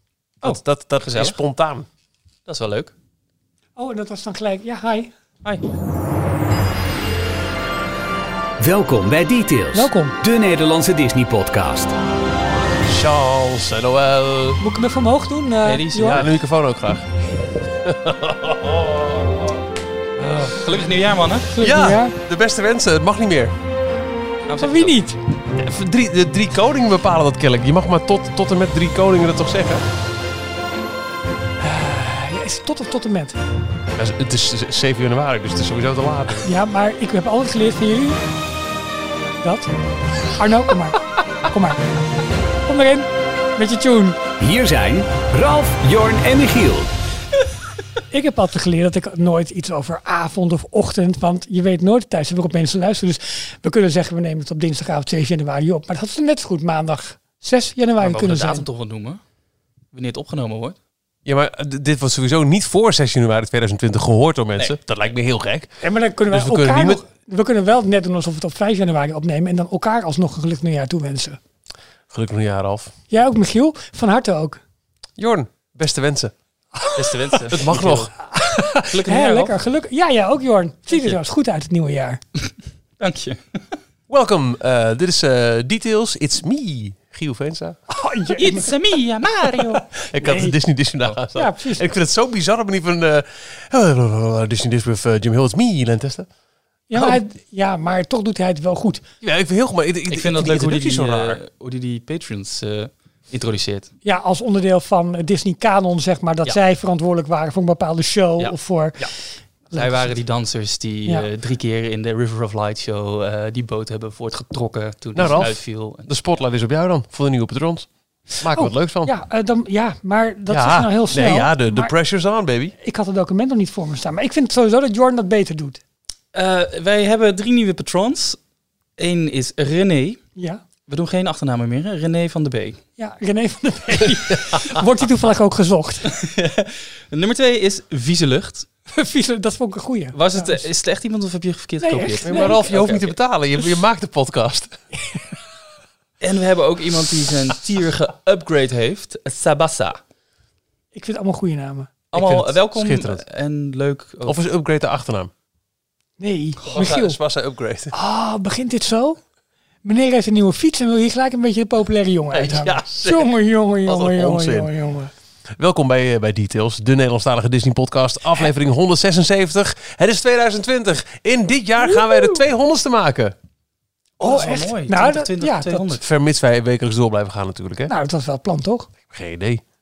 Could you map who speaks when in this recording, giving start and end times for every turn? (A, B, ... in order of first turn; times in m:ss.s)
0:00.4-0:01.9 A
0:00.4-0:01.4 B
0:02.5-0:02.9 B
0:03.8-0:05.1 C
0:08.6-0:12.0 D
0:09.7-0:10.2 C
0:12.8-0:14.6 A
0:14.6-0:16.2 C
0:15.6-0:16.3 B
0:16.1-0:17.1 A
0:17.8-0:19.6 A
0:20.3-0:21.5 B
0:21.5-0:22.2 C
0:21.6-0:23.5 A
0:24.5-0:24.9 B
0:24.6-0:25.2 C
0:25.5-0:29.8 A
0:31.6-0:33.4 C
0:34.0-0:36.5 A
0:36.4-0:38.2 C
0:39.4-0:39.7 C
0:40.4-0:41.9 C
0:42.6-0:44.2 C
0:44.4-0:46.9 D
0:48.1-0:58.7 C
0:58.0-0:59.2 B
0:59.9-1:00.8 B
1:01.2-1:05.7 A
1:05.8-1:11.4 C
1:06.3-1:07.0 A
1:12.1-1:12.9 A
1:13.1-1:14.6 C
1:15.2-1:16.3 A
1:16.8-1:17.6 C
1:17.0-1:18.1 B
1:17.5-1:18.1 A
1:18.2-1:22.2 C
1:18.8-1:19.5 B
1:23.0-1:23.6 B
1:24.1-1:27.8 A
1:27.9-1:28.7 C
1:28.4-1:29.8 B
1:29.4-1:30.6 C
1:30.0-1:36.3 A
1:31.3-1:31.8 C
1:36.9-1:39.0 C
1:39.2-1:41.4 A
1:40.1-1:43.9 B
1:44.0-1:49.1 C
1:48.4-1:49.1 B
1:49.7-1:50.1 C
1:49.7-1:56.2 B
1:55.2-1:57.9 A
1:58.4-1:59.1 A
1:58.5-2:01.9 C
2:00.5-2:02.7 A
2:02.8-2:05.8 C
2:06.3-2:08.4 B
2:09.0-2:10.2 B
2:10.4-2:10.6 C
2:10.9-2:12.8 B
2:13.0-2:16.1 C
2:16.1-2:18.7 B
2:18.9-2:20.6 C
2:20.1-2:23.1 B
2:21.8-2:22.6 C
2:22.2-2:24.8 A
2:26.2-2:30.0 B
2:30.9-2:31.9 C
2:32.1-2:34.4 B
2:32.1-2:33.2 A
2:34.2-2:35.3 A
2:36.2-2:37.2 C
2:36.6-2:37.0 B
2:36.6-2:37.9 A
2:37.9-2:39.2 C
2:39.8-2:45.1 C
2:42.3-2:43.3 A
2:43.8-2:44.7 A
2:45.6-2:53.4 A
2:51.9-2:52.4 C
2:54.2-2:56.0 C
2:54.2-2:56.0 B
2:56.0-2:57.9 A
2:57.9-2:58.9 C
2:59.1-2:59.6 A